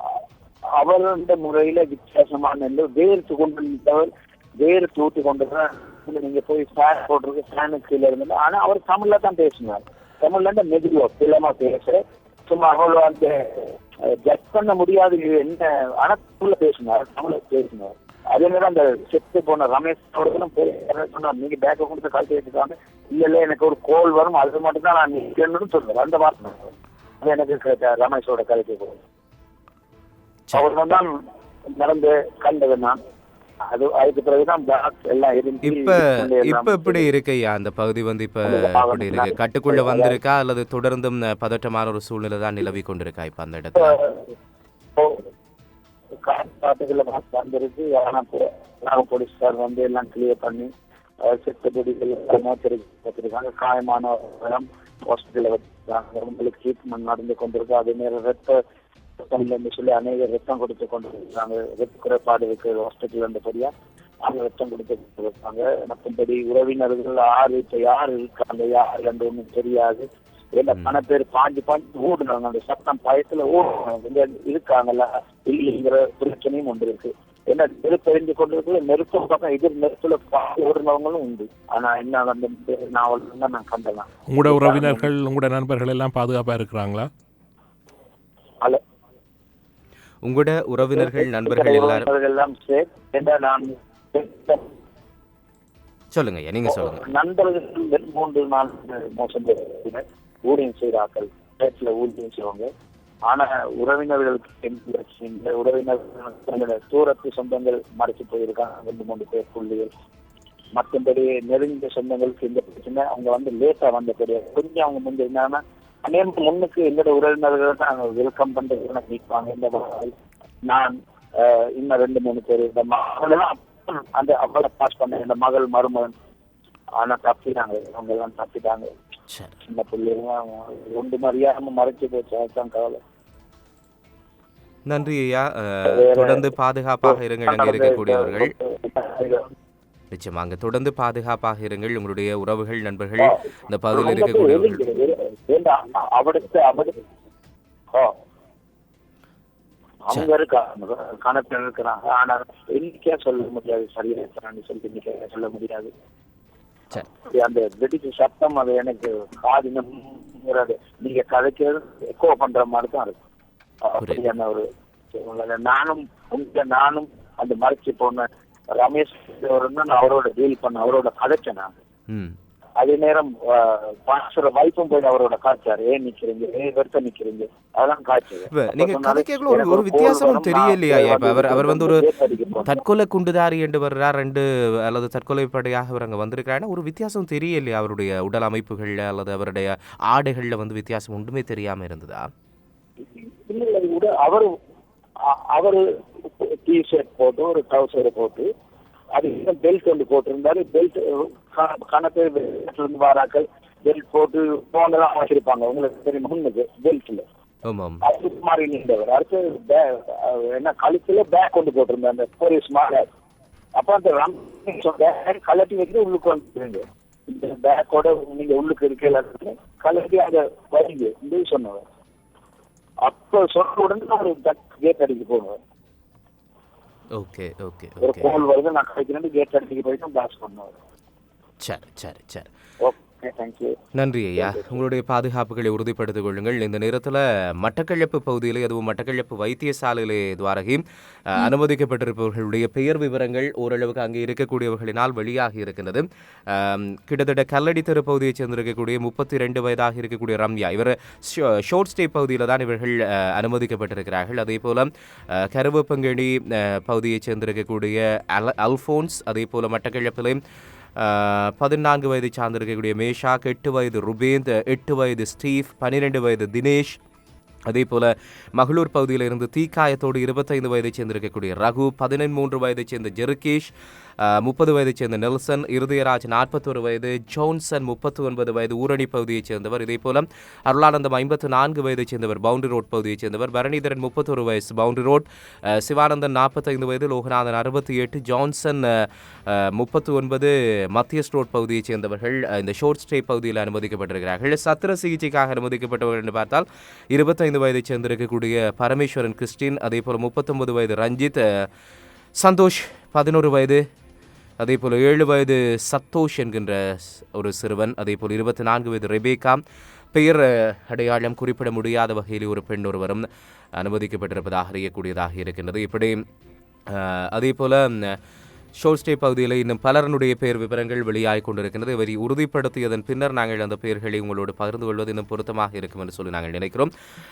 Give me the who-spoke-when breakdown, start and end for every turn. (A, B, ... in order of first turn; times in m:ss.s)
0:00.8-0:29.0 A
0:30.5-0:31.2 A
0:31.8-0:33.0 A
0:33.7-0:37.1 A
0:35.6-0:44.0 B
0:38.4-0:40.2 A
0:43.8-0:44.2 A
0:45.0-0:45.2 A
0:46.2-0:50.7 A
0:51.2-0:58.6 A
0:59.2-1:03.7 A
1:04.2-1:25.1 A
1:24.3-1:27.1 C
1:30.2-1:32.1 B
1:31.0-1:34.7 A
1:36.1-1:37.0 B
1:36.7-1:42.7 A
1:43.3-1:49.9 A
1:50.7-2:00.1 A
2:00.6-2:06.1 A
2:07.0-2:08.9 A
2:09.6-2:13.0 A
2:14.9-2:18.5 B
2:15.9-2:16.4 A
2:17.0-2:19.5 A
2:20.1-2:24.8 B
2:23.2-2:27.0 A
2:30.0-2:35.9 A
2:37.1-2:43.2 A
2:43.8-2:51.7 A
2:52.1-2:52.4 B
2:52.8-3:02.8 A
2:58.5-3:02.0 B
3:02.7-3:12.3 B
3:13.4-3:14.5 A
3:15.3-3:18.5 A
3:19.1-3:27.2 A
3:27.6-3:28.0 B
3:28.0-3:33.1 A
3:33.8-3:41.8 A
3:43.0-3:45.6 A
3:47.1-3:48.3 B
3:48.0-3:50.8 A
3:51.6-3:52.5 B
3:52.8-3:53.8 A
3:54.0-4:20.4 B
3:54.4-3:54.8 A
4:21.0-4:27.0 B
4:27.7-5:01.7 B
5:02.4-5:03.8 B
5:04.6-5:09.6 B
5:10.1-5:16.2 B
5:16.9-5:18.2 B
5:18.8-5:26.9 B